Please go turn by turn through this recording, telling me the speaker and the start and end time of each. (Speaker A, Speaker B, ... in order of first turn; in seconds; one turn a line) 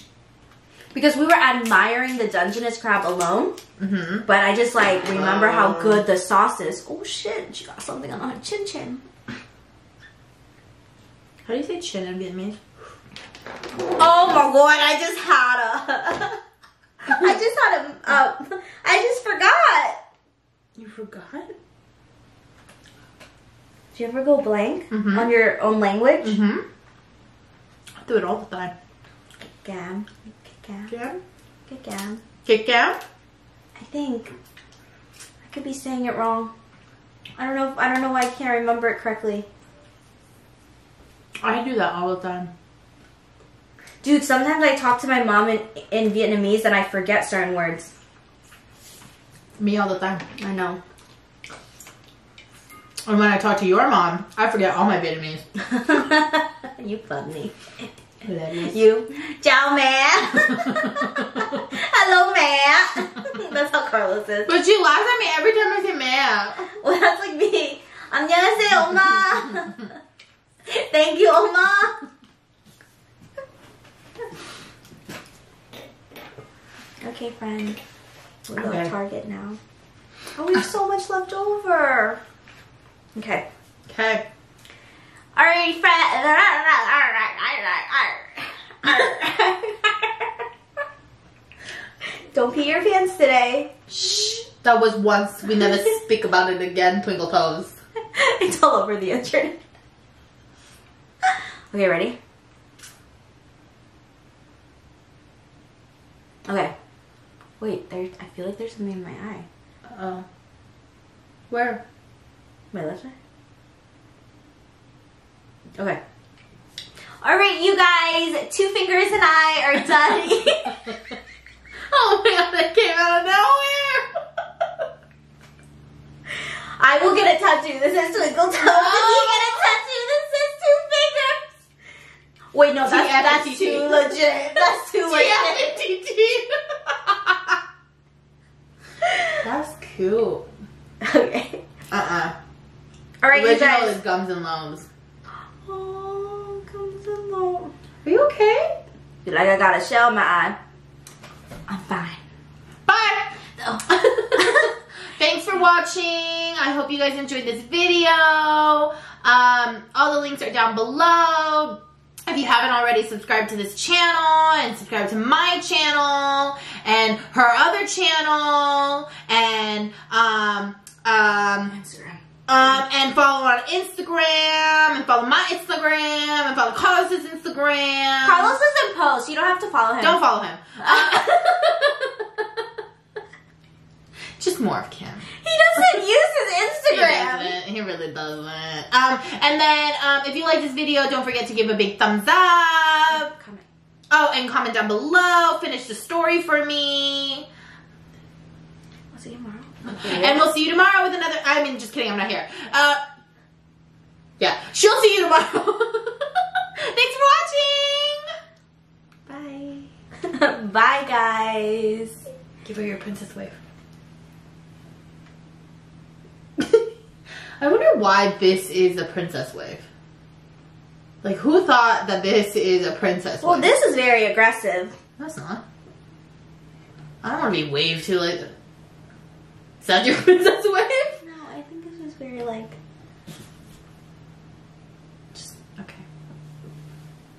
Speaker A: 0.9-3.6
Speaker B: 3.8-4.2
Speaker A: 4.2-9.0
Speaker B: 5.1-6.0
Speaker B: 11.4-12.6
Speaker A: 14.0-16.4
Speaker A: 17.0-20.0
Speaker B: 20.7-21.5
Speaker A: 23.9-26.4
Speaker B: 24.9-25.3
Speaker B: 26.2-26.6
Speaker B: 28.0-28.7
Speaker A: 29.4-30.9
Speaker B: 30.9-31.2
Speaker A: 31.7-32.2
Speaker B: 32.4-33.0
Speaker A: 33.8-34.3
Speaker A: 35.4-36.5
Speaker A: 37.4-39.5
Speaker B: 41.4-42.5
Speaker A: 44.0-47.9
Speaker B: 49.6-50.2
Speaker A: 50.4-50.8
Speaker B: 53.0-55.4
Speaker A: 55.6-57.5
Speaker B: 58.2-58.8
Speaker A: 58.6-64.5
Speaker B: 64.5-66.7
Speaker A: 66.7-69.9
Speaker A: 70.7-72.0
Speaker A: 77.0-77.8
Speaker A: 78.5-79.6
Speaker B: 78.6-78.9
Speaker A: 80.3-82.2
Speaker A: 83.1-83.4
Speaker B: 83.9-84.2
Speaker A: 85.3-90.3
Speaker A: 92.3-94.4
Speaker B: 94.4-97.8
Speaker A: 98.1-99.6
Speaker A: 101.7-102.2
Speaker A: 106.5-106.7
Speaker A: 107.6-109.5
Speaker B: 109.9-110.2
Speaker B: 111.5-111.8
Speaker A: 112.7-113.1
Speaker A: 117.2-121.0
Speaker B: 121.9-124.1
Speaker A: 126.8-131.6
Speaker B: 128.6-129.7
Speaker A: 132.5-135.7
Speaker B: 132.8-137.5
Speaker A: 139.0-139.3
Speaker B: 139.4-140.5
Speaker A: 141.0-141.6
Speaker B: 141.9-142.3
Speaker A: 143.2-144.0
Speaker B: 143.3-144.9
Speaker A: 145.6-147.7
Speaker B: 148.0-148.8
Speaker A: 149.2-150.6
Speaker A: 151.7-152.2
Speaker B: 152.9-171.8
Speaker A: 171.7-172.2
Speaker B: 172.5-178.6
Speaker A: 178.2-180.2
Speaker B: 180.0-182.1
Speaker A: 180.8-181.7
Speaker B: 184.4-185.3
Speaker A: 185.4-187.6
Speaker B: 186.9-193.3
Speaker A: 193.1-193.6
Speaker B: 194.1-197.5
Speaker A: 199.1-200.4
Speaker B: 199.9-203.0
Speaker B: 204.4-208.3
Speaker A: 209.3-212.2
Speaker B: 212.6-213.6
Speaker B: 216.6-216.9
Speaker B: 217.6-219.8
Speaker B: 221.2-223.7
Speaker A: 223.4-224.9
Speaker B: 225.2-225.6
Speaker B: 227.2-228.5
Speaker B: 229.8-231.2
Speaker A: 231.2-232.8
Speaker B: 235.3-236.0